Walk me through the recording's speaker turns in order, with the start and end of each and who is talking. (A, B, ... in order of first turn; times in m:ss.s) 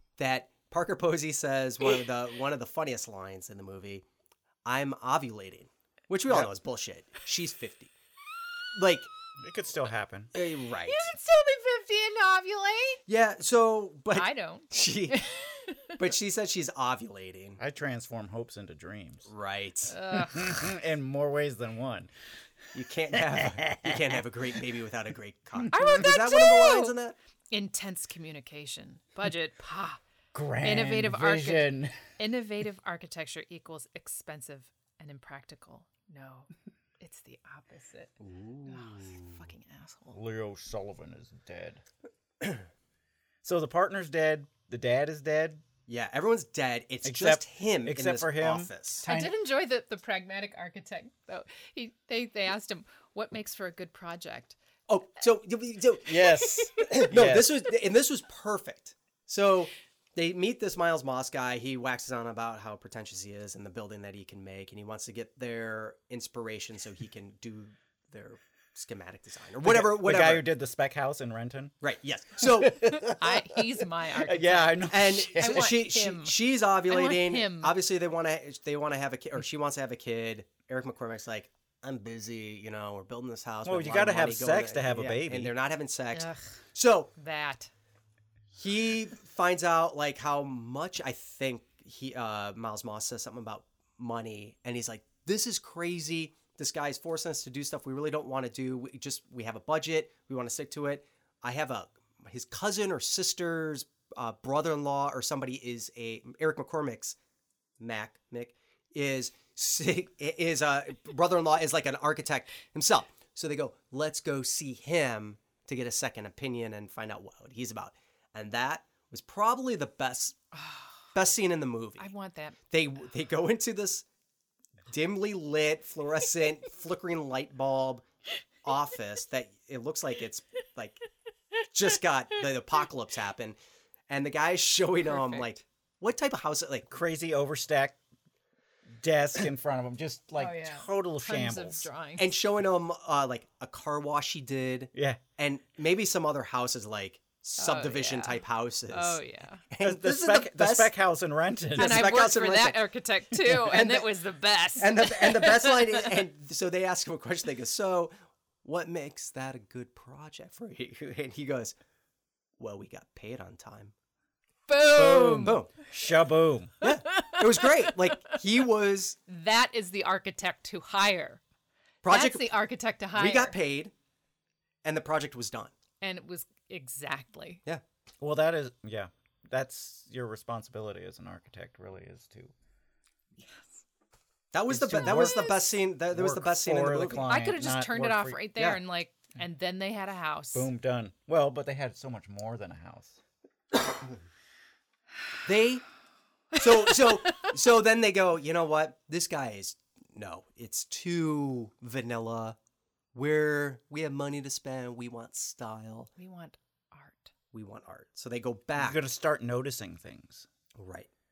0:00.2-0:04.0 A
0:04.6-0:07.9 A
0:08.7-0:09.1 A
0:09.4-0:10.3 B
0:10.3-0:11.1 A
0:10.8-0:13.0 C
0:13.1-0:15.2 A
0:14.1-0:16.0 C
0:16.0-0:17.6 A
0:17.6-0:19.3 B
0:19.3-0:20.0 A
0:19.9-0:20.6 C
0:20.1-0:22.1 B
0:22.7-0:27.2 A
0:23.1-0:24.2 B
0:25.7-0:26.9 C
0:27.5-0:30.0 C
0:30.3-0:32.0 B
0:30.6-0:36.5 C
0:37.0-0:38.1 C
0:38.2-0:39.4 A
0:38.6-0:40.2 C
0:40.1-0:41.8 B
0:43.4-0:45.6 B
0:45.9-0:49.0 A
0:47.0-0:49.4 B
0:49.0-0:54.6 C
0:54.9-1:10.5 A
0:56.0-0:57.6 B
1:09.6-1:11.7 B
1:11.8-1:13.0 A
1:12.4-1:13.6 B
1:13.0-1:16.4 C
1:14.2-1:15.7 B
1:14.9-1:27.1 A
1:16.9-1:17.7 C
1:23.6-1:25.5 B
1:26.1-1:26.5 C
1:27.2-1:27.7 C
1:28.6-1:47.2 A
1:47.8-2:00.4 A
2:00.5-2:00.9 C
2:01.1-2:02.1 A
2:02.0-2:02.6 C
2:02.7-2:04.0 A
2:04.9-2:08.0 A
2:08.6-2:11.0 A
2:11.7-2:13.6 A
2:14.1-2:16.9 A
2:15.0-2:15.5 C
2:16.9-2:18.0 B
2:19.0-2:21.9 B
2:20.4-2:22.3 C
2:22.2-2:30.9 A
2:24.9-2:25.2 B
2:27.6-2:29.6 C
2:29.8-2:32.2 B
2:31.7-2:32.8 A
2:31.8-2:36.1 C
2:33.4-2:34.1 A
2:34.8-2:41.7 A
2:42.6-2:43.9 A
2:44.7-2:45.6 C
2:45.0-2:46.7 B
2:45.0-2:45.7 A
2:46.8-2:49.2 A
2:47.1-2:47.9 C
2:49.3-2:51.4 C
2:52.0-2:52.6 A
2:52.0-2:53.6 C
2:53.1-2:53.9 A
2:54.8-2:55.7 A
2:56.0-2:57.6 C
2:58.2-3:02.5 B
3:03.4-3:03.7 C
3:04.5-3:07.3 A
3:04.7-3:05.6 B
3:06.1-3:08.4 B
3:07.3-3:10.7 C
3:08.6-3:08.8 A
3:10.5-3:13.2 B
3:15.4-3:15.8 A
3:16.5-3:22.6 A
3:23.1-3:26.1 A
3:26.2-3:27.3 C
3:27.5-3:29.0 A
3:28.8-3:30.4 B
3:30.8-3:31.1 A